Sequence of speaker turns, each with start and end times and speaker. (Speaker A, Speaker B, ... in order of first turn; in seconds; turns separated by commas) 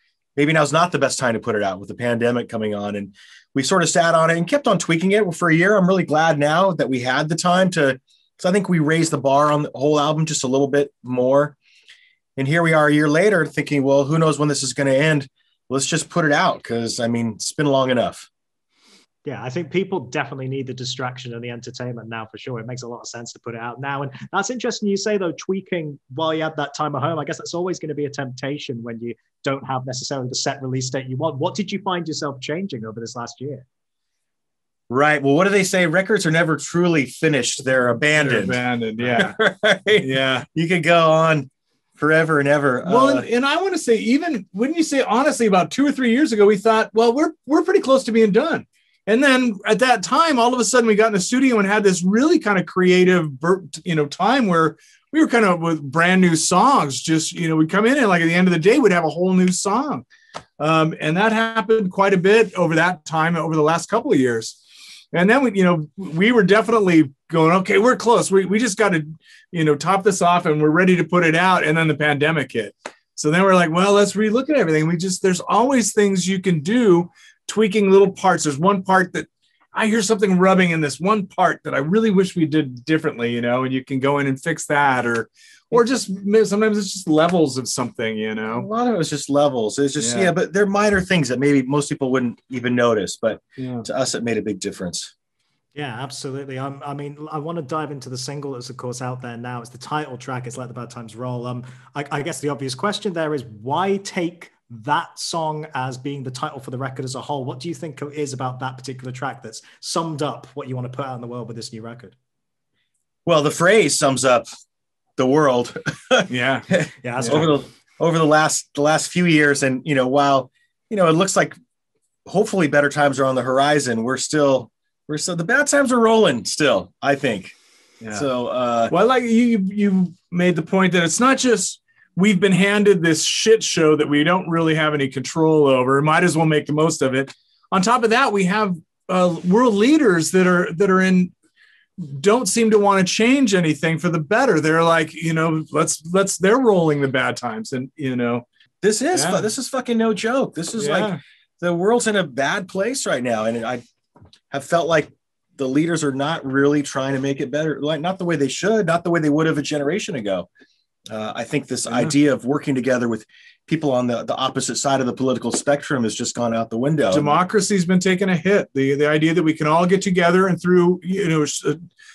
Speaker A: 0.4-11.6, Speaker A: 12.4-18.3, Speaker B: 19.2-33.6, Speaker A: 34.9-43.3, Speaker C: 38.1-39.4, Speaker C: 40.0-40.5, Speaker C: 42.8-60.0, Speaker C: 60.6-64.6, Speaker C: 65.1-88.7, Speaker A: 88.5-95.1, Speaker C: 90.0-90.3, Speaker C: 93.6-93.8, Speaker B: 95.8-112.2, Speaker A: 113.3-114.5, Speaker A: 115.2-121.6, Speaker C: 116.3-116.7, Speaker B: 117.0-117.5, Speaker A: 122.3-127.6, Speaker A: 128.1-128.9, Speaker C: 128.9-141.3, Speaker C: 142.0-148.4, Speaker A: 148.8-153.8, Speaker C: 149.1-149.5, Speaker C: 150.8-151.2, Speaker A: 154.5-160.5, Speaker A: 161.1-167.4, Speaker C: 167.1-171.8